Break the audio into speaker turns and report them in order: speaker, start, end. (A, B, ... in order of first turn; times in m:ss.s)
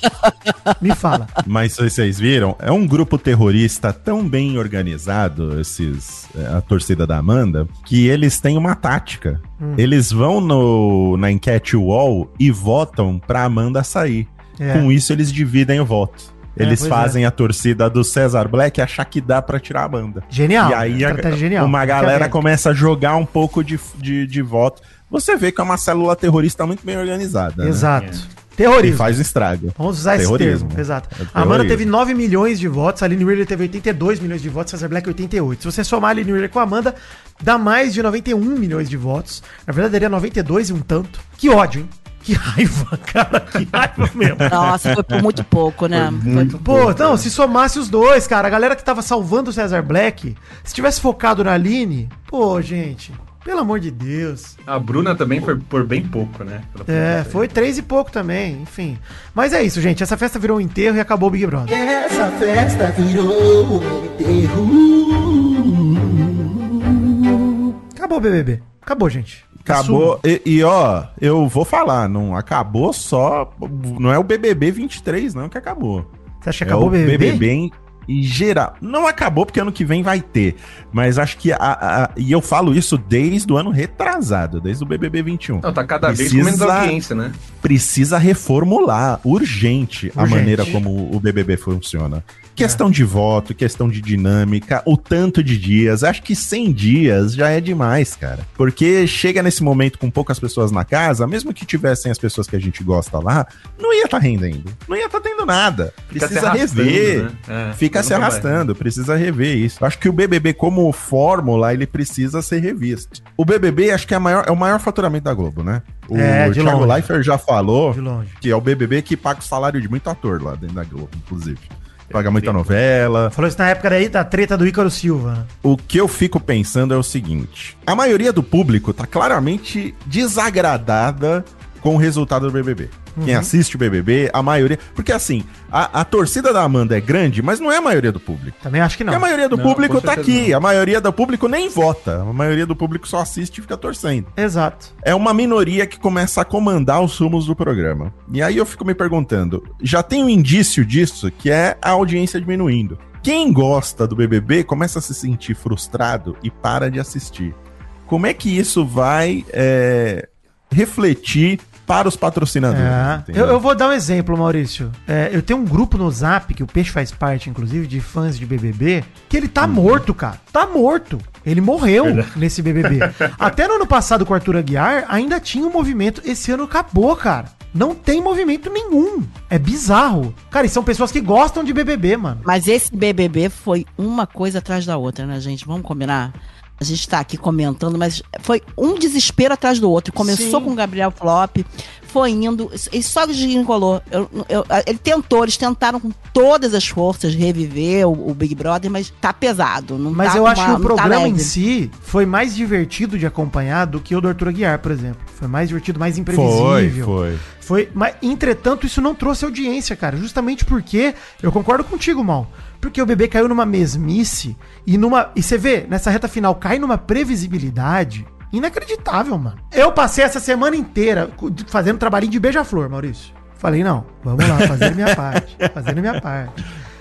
0:00.2-0:00.5 A
0:00.8-0:01.3 B
0:01.4-0:27.9 C
0:09.6-0:09.8 B
0:14.6-0:14.9 B
0:16.6-0:17.2 B
0:20.3-0:22.4 B
0:27.6-0:29.2 B
0:28.0-0:28.2 D
0:28.8-0:31.9 C
0:29.8-0:44.6 B
0:44.3-0:45.4 C
0:44.5-0:46.5 A
0:45.9-0:47.3 D
0:46.5-0:54.6 B
0:54.7-0:57.5 D
0:56.9-1:01.8 B
1:01.7-1:07.4 E
1:08.0-1:10.2 B
1:09.6-1:16.1 C
1:16.4-1:17.4 B
1:16.6-1:27.0 C
1:25.6-1:27.4 D
1:27.6-2:03.3 C
1:30.2-1:30.8 B
1:46.1-1:48.7 D
1:56.1-1:57.1 B
1:57.9-1:58.4 B
2:02.1-2:02.7 D
2:03.3-2:05.5 B
2:05.6-2:18.6 C
2:13.2-2:13.5 B
2:18.6-2:19.3 B
2:19.1-2:24.3 C
2:19.5-2:20.5 D
2:24.4-2:24.9 B
2:25.0-2:37.6 C
2:38.1-2:43.6 C
2:42.7-3:02.4 B
2:52.0-2:53.5 D
3:02.4-3:21.5 A
3:10.2-3:10.7 B
3:20.1-3:46.7 B
3:26.3-3:27.4 C
3:44.4-3:46.2 C